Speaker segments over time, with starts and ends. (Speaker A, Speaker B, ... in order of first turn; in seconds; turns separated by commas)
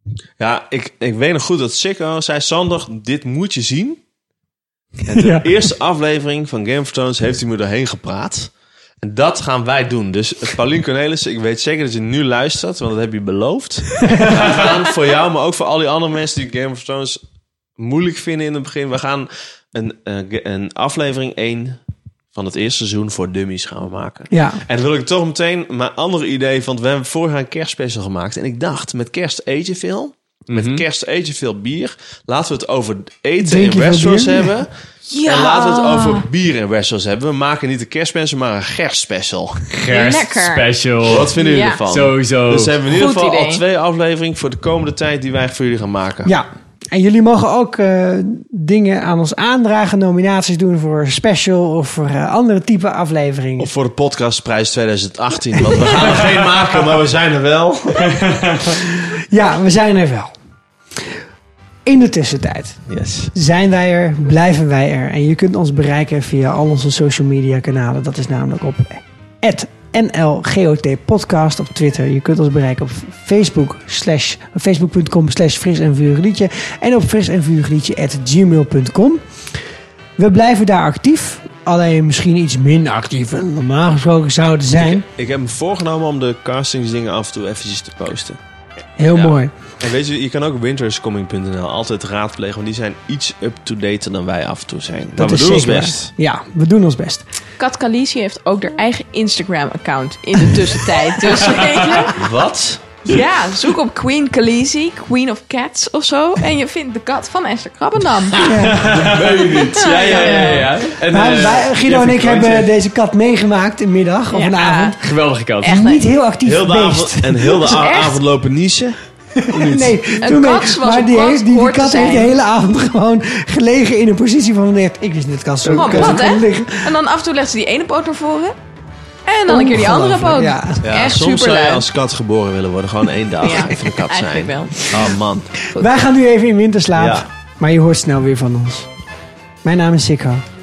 Speaker A: 0.4-4.0, Speaker A: 5.1-8.5, Speaker B: 5.1-5.5, Speaker A: 9.0-17.2, Speaker A: 17.8-21.8, Speaker A: 22.3-40.3, Speaker B: 24.3-24.6, Speaker C: 30.5-30.8, Speaker B: 33.4-34.6, Speaker D: 35.1-36.2, Speaker D: 39.9-40.7, Speaker C: 39.9-42.8, Speaker A: 41.0-46.3, Speaker D: 41.4-41.8, Speaker D: 42.9-43.6, Speaker B: 46.2-53.7, Speaker A: 53.6-58.2, Speaker B: 59.3-60.3, Speaker B: 61.9-62.8, Speaker A: 62.9-63.3, Speaker B: 63.3-79.2, Speaker B: 80.2-85.0, Speaker A: 84.8-88.4, Speaker B: 89.0-89.5, Speaker A: 89.1-96.1, Speaker B: 95.2-97.2, Speaker D: 97.6-102.2, Speaker A: 102.1-103.0, Speaker D: 103.0-108.6, Speaker B: 108.4-108.8, Speaker C: 108.7-112.7, Speaker A: 108.8-110.3, Speaker D: 109.7-110.8, Speaker B: 111.1-115.0, Speaker D: 114.3-115.0, Speaker C: 115.0-115.8, Speaker D: 115.6-116.0, Speaker B: 115.6-117.7, Speaker A: 116.4-119.0, Speaker D: 117.6-118.2, Speaker A: 119.5-120.2, Speaker B: 119.5-126.9, Speaker D: 120.2-122.3, Speaker D: 125.7-128.6, Speaker D: 129.3-131.8, Speaker B: 129.5-130.8, Speaker A: 130.8-135.9, Speaker D: 133.4-134.9, Speaker B: 135.7-138.9, Speaker A: 136.9-137.2, Speaker B: 139.6-140.4